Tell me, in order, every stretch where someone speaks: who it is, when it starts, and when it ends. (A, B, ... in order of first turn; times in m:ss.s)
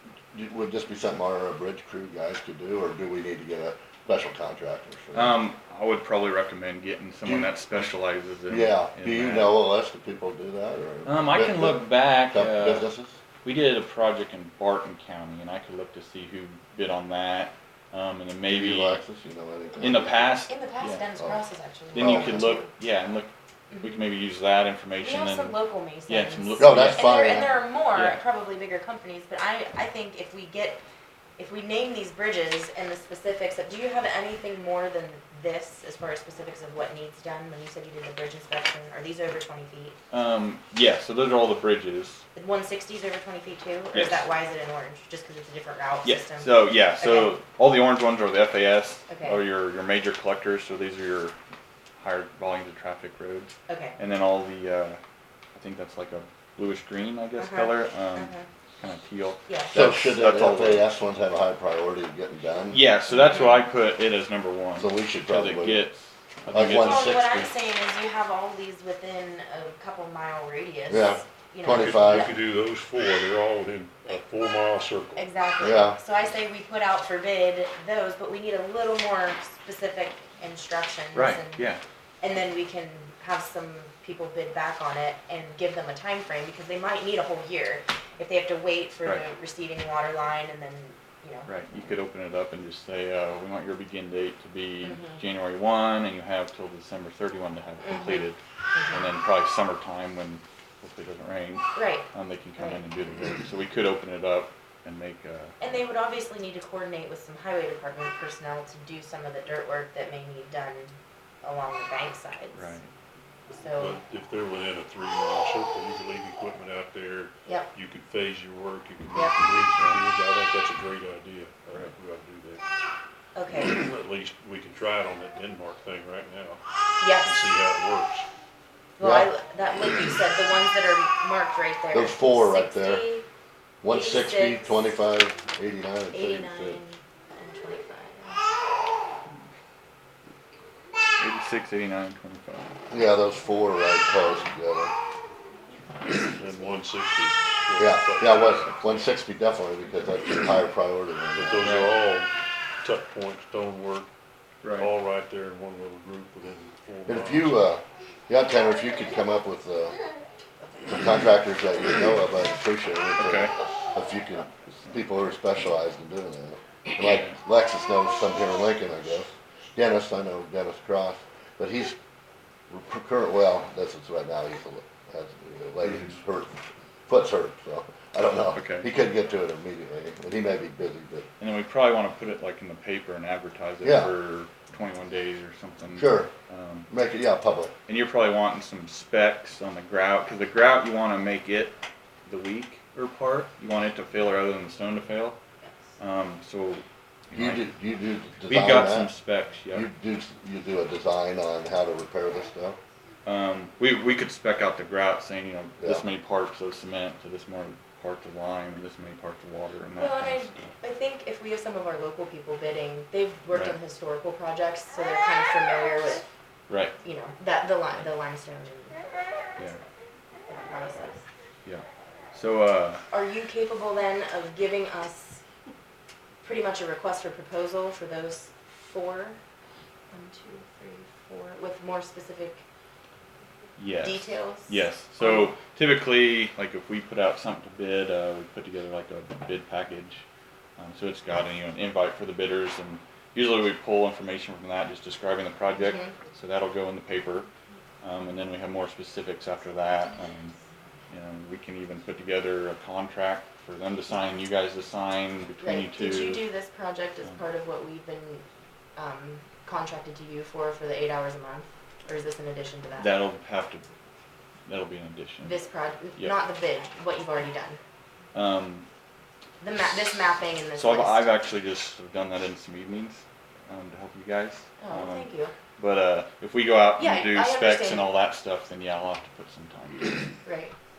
0:00.3-0:05.4 A
0:05.1-0:09.6 B
0:07.2-0:07.5 A
0:08.5-0:13.2 A
0:11.0-0:12.9 B
0:13.4-0:19.0 B
0:18.5-0:20.2 A
0:19.8-0:21.0 B
0:19.8-0:22.7 C
0:21.9-0:23.3 B
0:22.0-0:22.6 A
0:23.8-0:25.6 B
0:25.0-0:30.8 C
0:26.1-0:28.2 B
0:26.6-0:27.6 A
0:31.4-0:40.0 C
0:40.1-0:42.2 B
0:42.4-0:47.4 C
0:43.9-0:44.2 B
0:46.0-0:51.4 B
0:49.1-0:49.4 C
0:52.0-0:55.0 B
0:53.7-0:54.0 C
0:55.6-1:00.9 B
0:57.4-0:58.5 C
0:59.5-0:59.7 C
0:59.7-1:02.8 A
1:02.7-1:07.2 B
1:04.8-1:05.9 A
1:06.5-1:07.5 A
1:06.5-1:12.4 C
1:10.9-1:12.3 A
1:11.7-1:15.2 D
1:15.2-1:21.6 C
1:15.6-1:16.0 A
1:21.1-1:21.8 B
1:22.2-1:31.5 C
1:31.5-1:45.6 B
1:34.8-1:35.2 C
1:37.8-1:39.1 C
1:41.7-1:42.8 C
1:45.6-1:52.7 C
1:52.5-1:52.9 B
1:53.5-1:54.0 C
1:53.8-2:02.6 D
1:57.4-1:57.7 C
1:59.8-2:00.0 B
2:03.4-2:03.8 C
2:03.6-2:06.6 D
2:07.0-2:07.5 C
2:07.2-2:08.3 D
2:09.0-2:13.2 C
2:09.0-2:09.3 A
2:11.9-2:13.0 A
2:13.8-2:16.8 A
2:13.9-2:14.8 C
2:16.1-2:18.4 C
2:21.2-2:22.8 B
2:22.9-2:24.9 A
2:26.3-2:28.7 D
2:27.8-2:31.6 A
2:31.4-2:34.1 D
2:31.6-2:32.0 B
2:34.6-2:34.9 B
2:34.7-2:37.7 D
2:37.1-2:40.0 A
2:40.9-2:52.0 A
2:43.2-2:43.5 B
2:47.0-2:47.3 B
2:52.7-3:01.3 A
2:58.5-2:58.9 B
3:01.4-3:06.9 B
3:03.8-3:04.1 A
3:06.0-3:06.3 A
3:06.9-3:07.7 A
3:07.9-3:11.8 B
3:12.3-3:15.4 B
3:16.0-3:17.6 B
3:17.3-3:19.1 A
3:18.5-3:19.9 B
3:19.7-3:22.8 A
3:23.2-3:30.7 B
3:30.0-3:36.3 C
3:36.7-3:37.0 B
3:37.0-3:39.0 C
3:40.5-3:41.2 C
3:41.6-3:43.0 B
3:43.1-3:45.4 C
3:46.4-3:49.4 C
3:50.1-3:52.6 C
3:53.8-4:00.2 B
3:54.0-3:55.5 C
4:00.8-4:07.5 B
4:05.8-4:06.1 C
4:08.0-4:10.6 B
4:11.1-4:16.4 B
4:15.6-4:18.4 C
4:19.0-4:23.2 C
4:23.0-4:23.8 B
4:24.7-4:25.6 B
4:25.4-4:27.8 C
4:28.3-4:28.9 B
4:29.6-4:31.3 C
4:30.8-4:40.2 B
4:34.8-4:35.5 C
4:37.0-4:38.1 C
4:40.4-4:40.7 C